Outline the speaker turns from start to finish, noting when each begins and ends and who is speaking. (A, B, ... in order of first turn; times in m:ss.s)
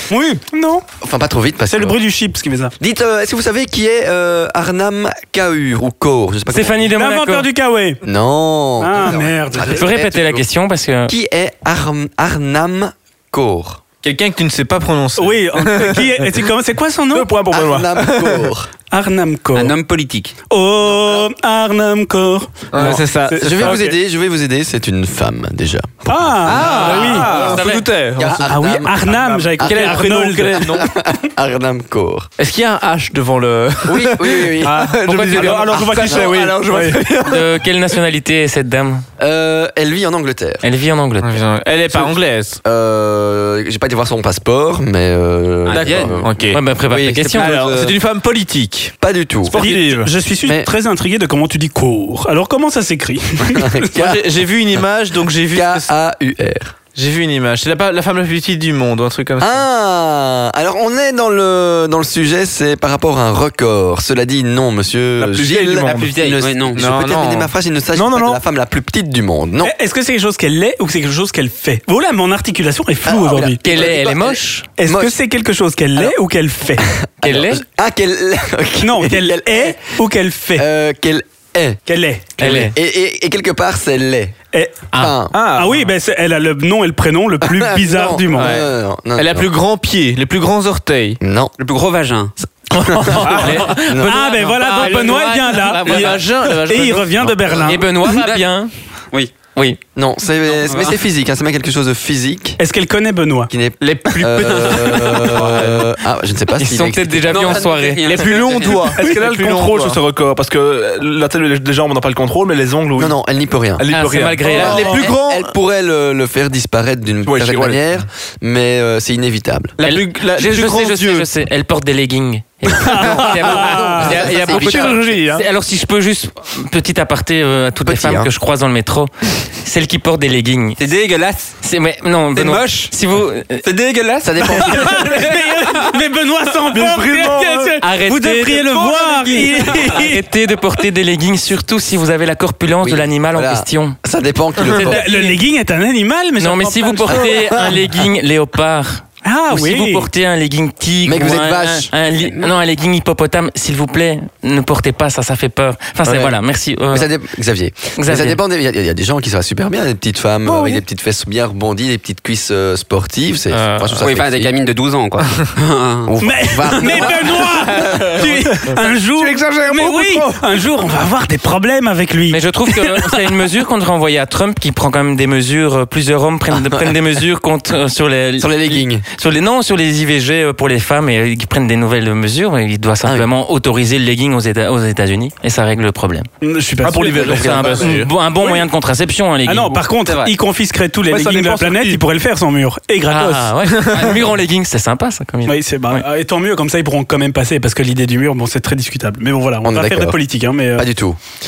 0:00.1-0:00.6 A
0:00.5-0:00.8 B
0:01.0-0:02.0 C
0:01.7-0:02.7 A
0:02.8-0:06.9 C
0:06.5-0:07.5 D
0:06.9-0:08.0 A
0:08.0-0:10.4 C
0:08.8-0:09.8 A
0:09.7-0:11.1 D
0:11.1-0:13.8 C
0:14.0-0:16.0 E
0:15.2-0:17.3 A
0:17.1-0:18.4 B
0:17.5-0:18.7 C
0:18.9-0:19.7 A
0:19.5-0:20.4 F
0:20.5-0:23.9 A
0:22.7-0:23.8 E
0:22.8-0:27.6 C
0:26.0-0:27.3 A
0:26.4-0:28.5 E
0:26.7-0:27.6 B
0:26.8-0:27.9 D
0:28.1-0:32.3 C
0:28.3-0:30.7 A
0:29.6-0:30.9 E
0:32.4-0:37.6 E
0:33.8-0:35.6 C
0:34.6-0:37.1 B
0:35.1-0:35.7 D
0:37.2-0:39.0 D
0:39.2-0:40.6 C
0:40.6-0:41.3 D
0:41.2-0:42.6 E
0:41.9-0:48.0 C
0:45.6-0:46.2 F
0:45.7-0:46.6 E
0:46.5-0:47.6 D
0:47.3-0:48.9 E
0:49.0-0:49.6 C
0:49.5-0:50.1 B
0:49.5-0:53.7 A
0:50.4-0:50.7 C
0:53.5-0:54.3 C
0:53.9-0:55.9 E
0:55.5-0:56.7 C
0:56.9-0:59.6 E
0:59.4-1:09.7 C
1:05.2-1:06.1 B
1:05.8-1:06.8 F
1:06.7-1:07.5 E
1:07.9-1:08.4 B
1:09.6-1:13.6 A
1:13.0-1:15.1 C
1:13.6-1:14.7 D
1:14.8-1:16.9 A
1:17.2-1:19.8 C
1:17.2-1:17.6 D
1:18.8-1:20.6 A
1:20.6-1:21.8 C
1:21.9-1:22.4 A
1:22.4-1:24.3 C
1:22.4-1:22.7 D
1:22.4-1:22.7 E
1:24.5-1:24.8 A
1:24.9-1:25.3 C
1:25.3-1:25.7 B
1:25.4-1:28.5 A
1:27.4-1:29.5 C
1:28.3-1:31.2 E
1:31.2-1:31.5 C
1:31.6-1:32.3 F
1:32.8-1:34.2 C
1:33.1-1:33.6 B
1:33.3-1:36.1 D
1:33.8-1:37.8 A
1:34.5-1:37.4 E
1:37.6-1:38.7 D
1:38.0-1:38.5 F
1:39.1-1:39.4 F
1:39.9-1:42.6 C
1:40.6-1:41.0 F
1:42.6-1:43.5 A
1:43.5-1:47.7 C
1:43.8-1:45.9 E
1:46.6-1:48.4 D
1:47.3-1:49.0 F
1:48.0-1:50.0 E
1:48.7-1:53.2 B
1:53.0-1:53.9 C
1:53.8-1:54.5 B
1:53.9-1:55.0 D
1:54.4-1:55.0 A
1:54.4-1:55.5 E
1:54.5-1:59.7 C
1:57.2-1:57.8 B
1:59.8-2:01.3 E
1:59.8-2:10.8 D
2:02.7-2:04.0 A
2:03.2-2:05.0 E
2:03.4-2:05.0 C
2:04.4-2:05.4 B
2:07.8-2:08.3 C
2:10.8-2:11.6 F
2:11.6-2:13.6 D
2:12.3-2:12.9 F
2:13.6-2:15.9 F
2:14.2-2:15.2 C
2:14.5-2:20.2 A
2:16.7-2:17.8 B
2:17.8-2:24.0 D
2:22.8-2:25.2 C
2:24.7-2:25.3 D
2:24.8-2:27.4 A
2:26.4-2:37.1 D
2:27.1-2:28.0 C
2:29.2-2:30.1 A
2:31.0-2:31.9 C
2:32.2-2:32.6 F
2:36.0-2:36.3 C
2:36.9-2:44.5 C
2:38.0-2:38.4 D
2:40.4-2:40.8 B
2:43.5-2:44.0 E
2:44.0-2:46.1 F
2:46.0-2:47.7 C
2:46.2-2:53.1 A
2:46.8-2:47.1 F
2:49.0-2:50.4 B
2:52.3-3:06.3 D
2:56.5-2:56.9 C
2:58.4-2:59.0 C
3:06.4-3:07.5 A
3:06.8-3:07.9 B
3:07.2-3:09.8 D
3:07.4-3:08.1 E
3:09.4-3:13.5 A
3:10.0-3:10.3 F
3:11.1-3:12.0 B
3:13.1-3:16.0 D
3:13.9-3:14.3 F
3:15.4-3:20.9 A
3:19.6-3:20.2 C
3:20.7-3:21.2 C